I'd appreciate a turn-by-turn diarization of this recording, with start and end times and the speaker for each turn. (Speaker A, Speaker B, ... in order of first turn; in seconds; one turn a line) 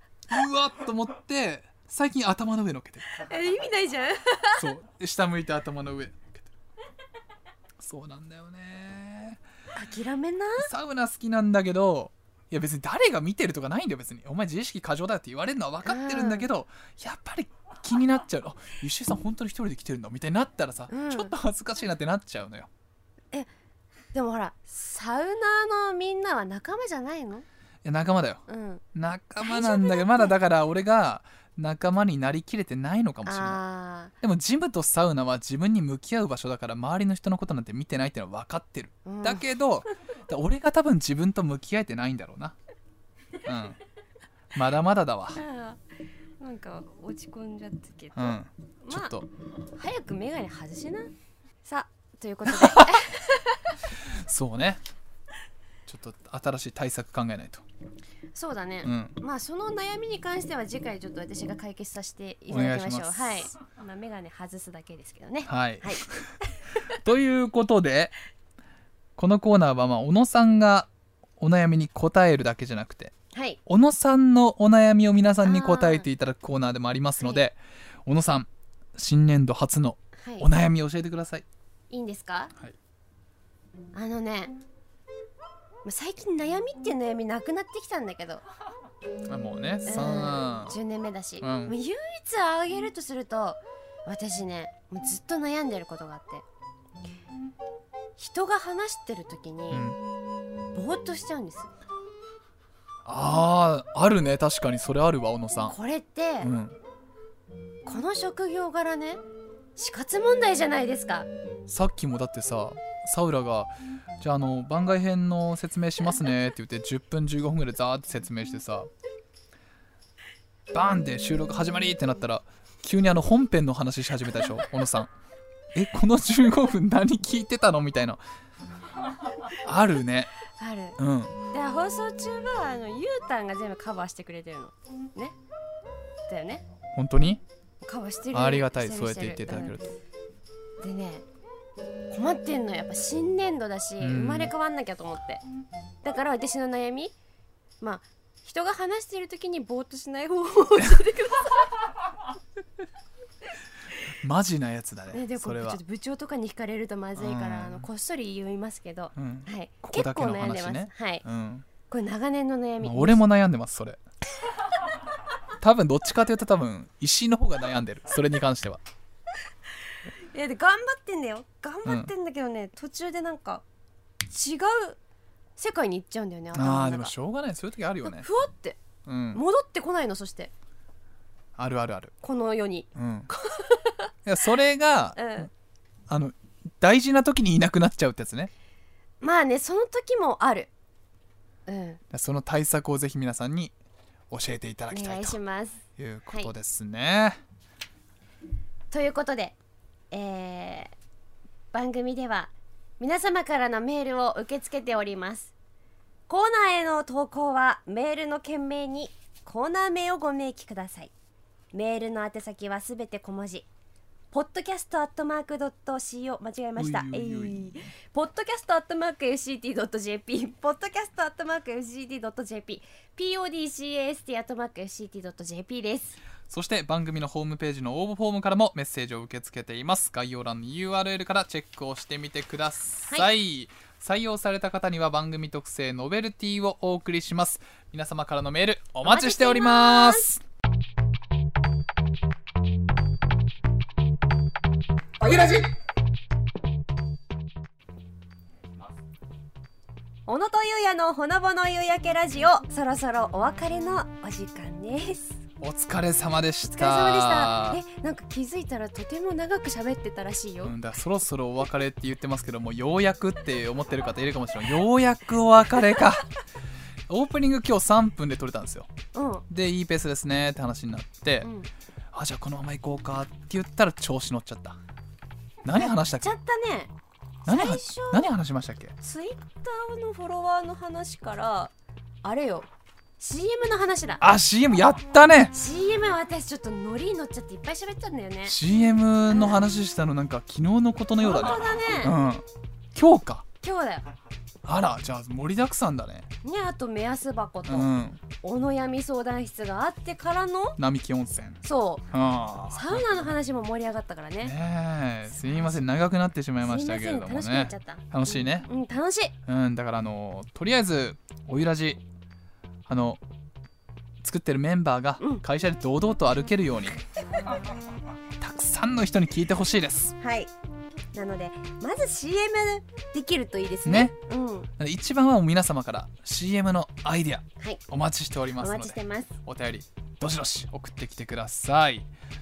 Speaker A: 0.3-3.1
Speaker B: 3.1-4.7
Speaker A: 4.6-6.5
Speaker A: 7.8-9.4
Speaker B: 9.8-10.7
Speaker A: 10.6-22.7
Speaker B: 15.8-16.5
Speaker B: 20.9-21.3
Speaker B: 24.1-27.4
Speaker A: 27.8-33.6
Speaker B: 28.5-28.8
Speaker B: 29.4-30.3
Speaker B: 33.2-34.1
Speaker A: 34.2-42.6
Speaker B: 39.1-39.5
Speaker A: 43.5-43.8
Speaker A: 44.5-45.4
Speaker B: 45.3-45.8
Speaker B: 46.4-49.1
Speaker A: 48.2-49.3
Speaker B: 49.8-51.1
Speaker B: 51.6-53.8
Speaker A: 52.5-52.9
Speaker A: 54.0-54.8
Speaker A: 55.9-57.6
Speaker B: 58.4-66.5
Speaker A: 58.9-59.2
Speaker A: 62.5-63.5
Speaker A: 65.5-66.3
Speaker A: 66.9-68.1
Speaker A: 69.2-73.1
Speaker B: 73.3-73.6
Speaker A: 73.7-81.5
Speaker B: 75.4-76.1
Speaker B: 80.2-80.5
Speaker B: 81.9-82.5
Speaker B: 83.9-84.6
Speaker B: 85.8-88.4
Speaker A: 89.3-90.8
Speaker B: 89.9-96.5
Speaker A: 91.4-91.8
Speaker B: 98.2-99.9
Speaker A: 99.7-100.0
Speaker B: 100.8-101.7
Speaker A: 103.0-105.8
Speaker B: 105.7-106.5
Speaker A: 106.4-106.8
Speaker B: 107.9-109.2
Speaker B: 109.8-111.3
Speaker A: 111.7-118.9
Speaker A: 120.7-125.1
Speaker A: 125.7-128.2
Speaker A: 129.5-130.3
Speaker B: 130.6-131.0
Speaker A: 131.0-131.4
Speaker B: 131.5-135.4
Speaker B: 136.3-136.6
Speaker A: 136.9-137.4
Speaker B: 137.8-139.8
Speaker A: 138.3-139.9
Speaker B: 140.8-141.2
Speaker B: 142.1-145.4
Speaker A: 144.0-144.5
Speaker B: 146.0-147.1
Speaker B: 147.8-151.7
Speaker A: 154.2-155.8
Speaker B: 155.1-161.2
Speaker A: 157.2-157.9
Speaker A: 159.2-161.7
Speaker B: 161.9-163.2
Speaker A: 162.8-164.0
Speaker A: 165.6-168.8
Speaker B: 170.2-173.6
Speaker A: 171.8-172.1
Speaker B: 174.3-175.0
Speaker B: 175.6-177.1
Speaker A: 176.5-178.3
Speaker B: 178.1-178.8
Speaker A: 179.1-179.4
Speaker B: 179.3-180.5
Speaker A: 181.6-182.1
Speaker B: 182.2-184.1
Speaker A: 183.0-183.3
Speaker A: 184.2-185.5
Speaker B: 185.2-185.5
Speaker A: 186.1-188.5
Speaker B: 189.2-190.7
Speaker B: 191.7-192.0
Speaker A: 192.1-193.7
Speaker A: 194.3-195.4
Speaker B: 194.9-196.5
Speaker A: 196.0-197.4
Speaker B: 198.9-199.6
Speaker B: 200.1-200.9
Speaker B: 201.7-205.5
Speaker B: 206.3-211.1
Speaker B: 211.7-213.7
Speaker B: 214.3-226.2
Speaker A: 216.8-217.8
Speaker A: 226.5-240.4
Speaker B: 239.1-240.3
Speaker B: 245.2-245.6
Speaker B: 250.3-255.4
Speaker A: 255.6-257.8
Speaker B: 256.7-260.8
Speaker A: 260.6-266.3
Speaker A: 267.1-268.9
Speaker B: 269.1-269.4
Speaker A: 269.5-271.5
Speaker B: 271.4-271.7
Speaker A: 272.1-274.8
Speaker A: 275.6-276.3
Speaker B: 275.8-276.9
Speaker A: 277.4-278.9
Speaker B: 277.5-278.3
Speaker B: 279.0-281.7
Speaker B: 282.2-282.7
Speaker B: 283.2-284.2
Speaker A: 284.2-285.5
Speaker B: 285.5-288.6
Speaker A: 288.5-293.4
Speaker B: 289.3-289.6
Speaker B: 291.2-292.1
Speaker B: 293.6-294.1
Speaker A: 294.6-296.3
Speaker B: 296.4-297.9
Speaker A: 297.7-298.2
Speaker B: 298.4-300.8
Speaker A: 300.8-303.2
Speaker B: 301.6-302.1
Speaker B: 302.7-304.6
Speaker A: 304.4-308.7
Speaker B: 305.3-305.8
Speaker B: 306.6-309.3
Speaker A: 309.5-312.0
Speaker A: 312.9-313.2
Speaker A: 314.2-317.0
Speaker A: 318.4-320.1
Speaker B: 320.2-320.5
Speaker B: 321.1-324.7
Speaker A: 323.9-324.1
Speaker A: 324.8-332.1
Speaker B: 328.6-329.3